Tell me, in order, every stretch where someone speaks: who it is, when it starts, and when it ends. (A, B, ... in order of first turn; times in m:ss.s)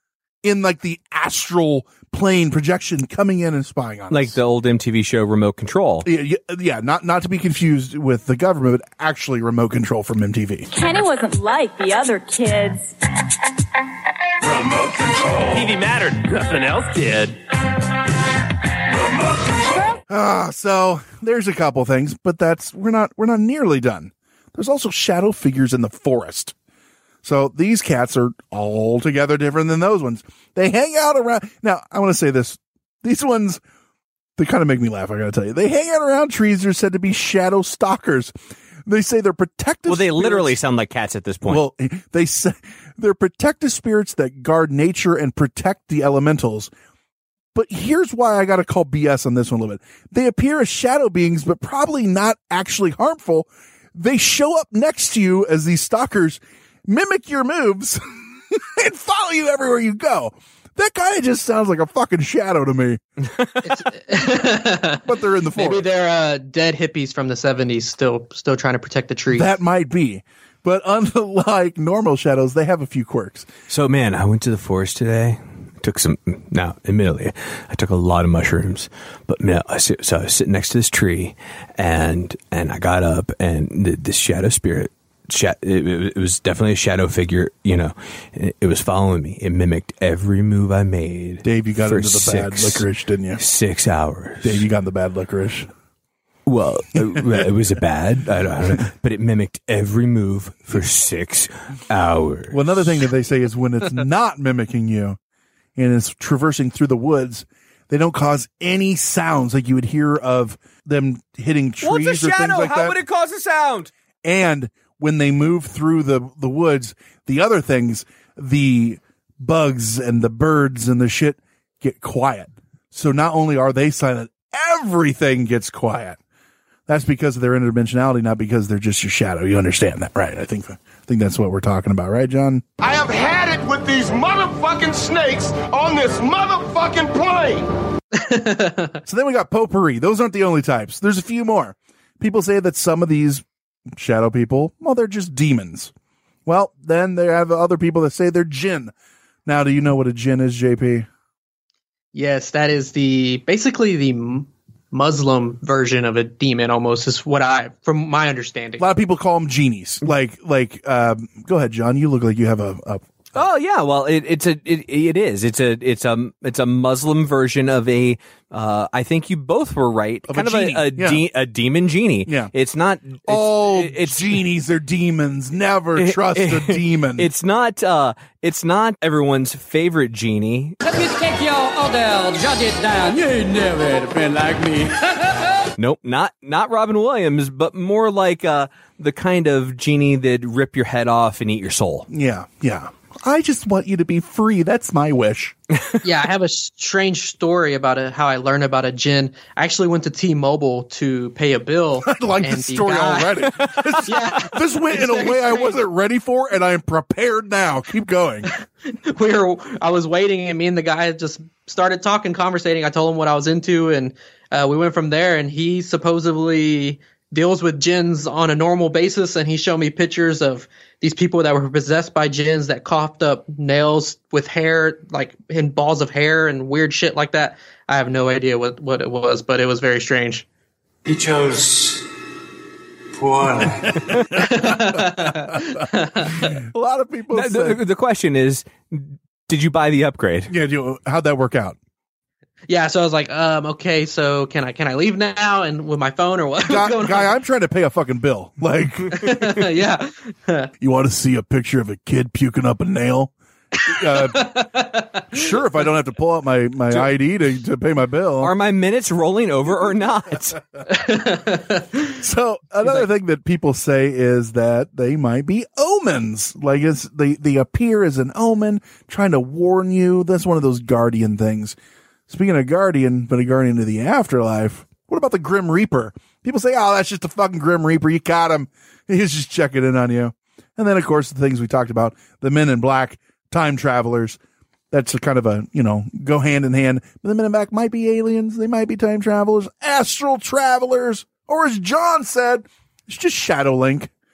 0:00.4-0:04.4 A
0:04.1-0:06.1 B
0:06.0-0:10.7 A
0:10.7-0:12.9 C
0:15.5-0:17.3 B
0:20.1-0:26.6 A
0:27.2-0:33.6 A
0:34.4-0:38.3 A
0:38.9-0:40.6 A
0:39.9-0:41.6 B
0:41.5-0:46.7 A
0:47.5-1:03.0 A
1:03.3-1:03.7 B
1:03.7-1:05.0 D
1:05.0-1:05.9 A
1:05.6-1:09.5 D
1:09.3-1:13.5 A
1:13.7-1:32.8 B
1:31.4-1:33.4 A
1:33.4-1:34.6 B
1:34.4-1:35.7 A
1:36.5-1:42.9 B
1:37.2-1:37.4 A
1:42.5-1:45.2 A
1:45.8-1:53.0 A
1:51.8-1:53.9 B
1:54.2-2:06.2 A
2:06.9-2:12.6 A
2:12.8-2:17.6 E
2:18.1-2:19.0 D
2:19.1-2:25.9 A
2:26.5-2:28.9 A
2:29.5-2:31.1 A
2:32.1-2:38.8 D
2:38.8-2:43.0 A
2:43.4-2:54.4 B
2:50.3-2:51.2 A
2:52.3-2:52.5 A
2:53.2-2:57.3 A
2:56.0-3:00.8 B
3:00.8-3:05.1 F
3:05.8-3:12.1 B
3:12.1-3:15.6 A
3:16.0-3:23.4 D
3:22.0-3:28.5 A
3:23.7-3:24.2 B
3:24.1-3:25.8 D
3:29.1-3:50.5 D
3:53.9-3:57.8 A
3:54.4-3:56.6 D
3:57.3-4:00.5 B
4:00.5-4:01.8 A
4:02.7-4:07.3 D
4:06.6-4:09.3 A
4:09.1-4:10.7 D
4:10.8-4:13.3 A
4:13.8-4:14.5 A
4:14.1-4:15.2 D
4:15.3-4:18.5 A
4:18.4-4:20.6 B
4:20.9-4:21.9 D
4:22.2-4:31.8 A
4:32.3-4:44.4 A
4:44.9-4:54.1 A